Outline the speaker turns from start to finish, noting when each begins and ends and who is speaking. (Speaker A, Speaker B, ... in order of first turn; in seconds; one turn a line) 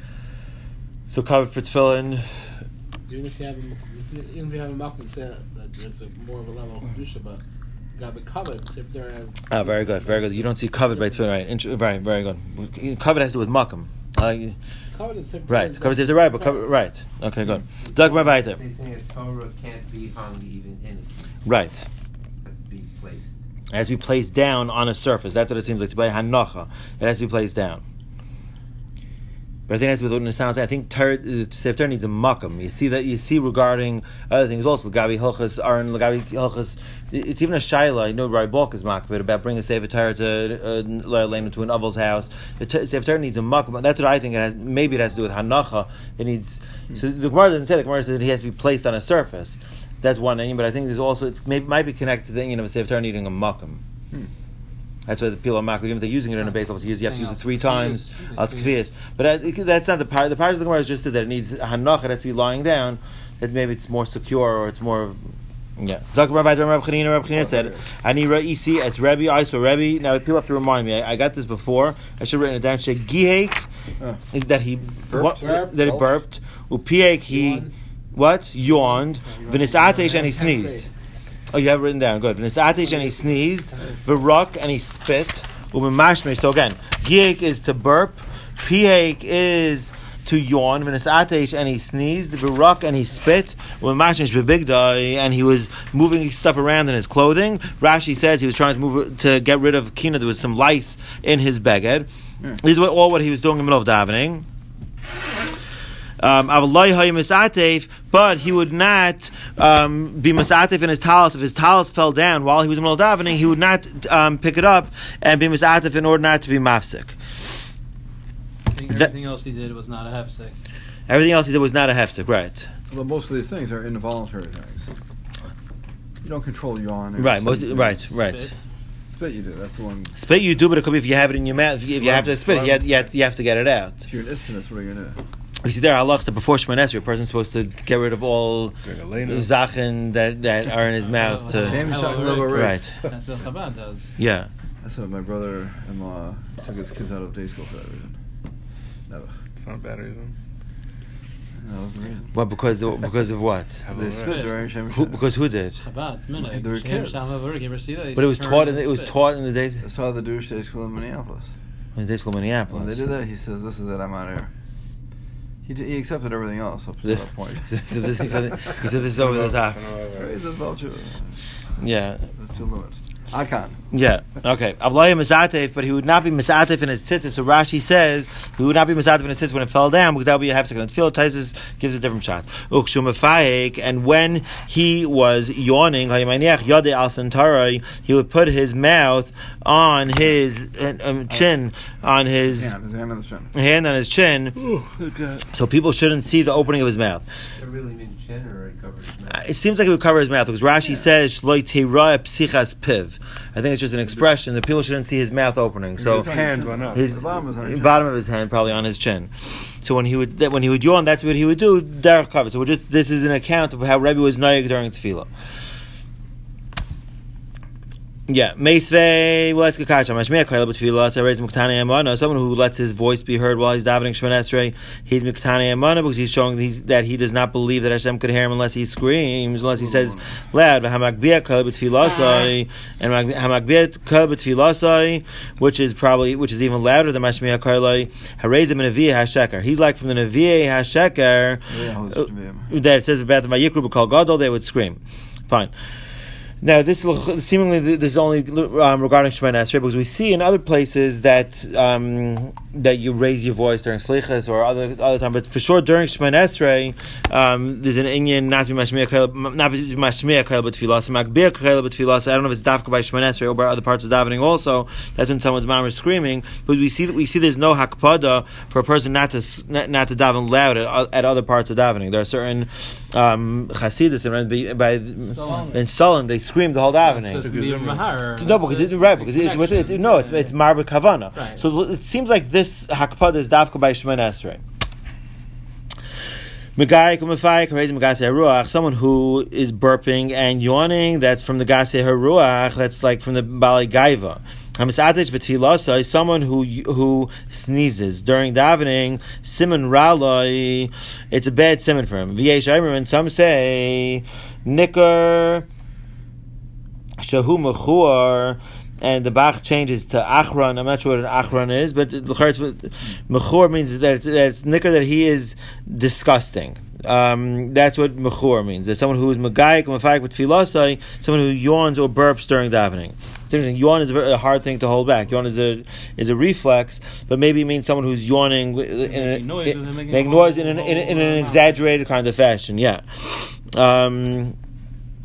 Speaker A: 1.1-2.3
Speaker B: 3.0-7.4
Speaker B: 8.0-11.3
Speaker A: 9.5-14.6
Speaker B: 14.9-16.7
Speaker A: 15.5-18.6
Speaker C: 17.8-21.4
Speaker A: 21.4-21.8
Speaker C: 22.4-23.4
Speaker A: 23.7-27.8
Speaker A: 29.7-53.8
Speaker A: 55.1-65.2
Speaker D: 57.0-58.8
Speaker A: 65.8-73.7
Speaker E: 67.3-67.8
Speaker A: 74.3-80.9
Speaker E: 75.1-76.2
Speaker B: 75.4-75.7
Speaker B: 77.3-77.7
Speaker B: 78.8-80.9
Speaker D: 79.6-80.4
Speaker A: 81.5-102.1
Speaker B: 82.8-83.9
Speaker A: 102.6-104.5
Speaker A: 106.2-117.2
Speaker D: 118.7-120.6
Speaker A: 121.1-122.7
Speaker E: 122.9-124.9
Speaker E: 126.2-128.1
Speaker A: 127.2-128.5
Speaker D: 128.2-128.5
Speaker E: 129.1-130.1
Speaker A: 130.2-134.0
Speaker F: 132.0-133.0
Speaker E: 134.1-135.2
Speaker A: 135.6-142.9
Speaker F: 138.8-139.5
Speaker D: 141.1-144.1
Speaker E: 141.5-143.1
Speaker A: 144.2-144.5
Speaker E: 144.8-148.2
Speaker E: 149.1-149.3
Speaker F: 149.6-150.3
Speaker E: 151.6-152.3
Speaker A: 152.3-153.8
Speaker F: 153.8-154.4
Speaker E: 153.9-155.2
Speaker D: 154.2-154.6
Speaker A: 154.9-155.8
Speaker D: 155.8-159.1
Speaker E: 156.4-157.3
Speaker A: 158.2-159.8
Speaker E: 159.8-161.5
Speaker A: 161.9-163.1
Speaker E: 162.7-164.5
Speaker E: 165.6-168.3
Speaker A: 167.1-169.8
Speaker F: 169.2-170.3
Speaker E: 170.1-171.4
Speaker A: 171.8-172.3
Speaker E: 172.4-173.8
Speaker A: 173.9-192.7
Speaker E: 192.5-193.5
Speaker A: 193.5-194.6
Speaker F: 194.6-195.4
Speaker A: 195.5-197.2
Speaker C: 197.6-199.4
Speaker A: 199.3-206.3
Speaker E: 206.0-208.1
Speaker F: 206.1-207.2
Speaker A: 206.9-215.3
Speaker A: 218.3-245.7
Speaker E: 229.7-230.4
Speaker E: 241.7-242.7
Speaker A: 246.6-277.5
Speaker D: 275.3-275.8
Speaker D: 277.0-280.6
Speaker F: 277.4-278.1
Speaker A: 278.4-284.6
Speaker D: 281.4-281.6
Speaker A: 286.8-305.6
Speaker A: 307.2-334.6
Speaker D: 329.0-331.8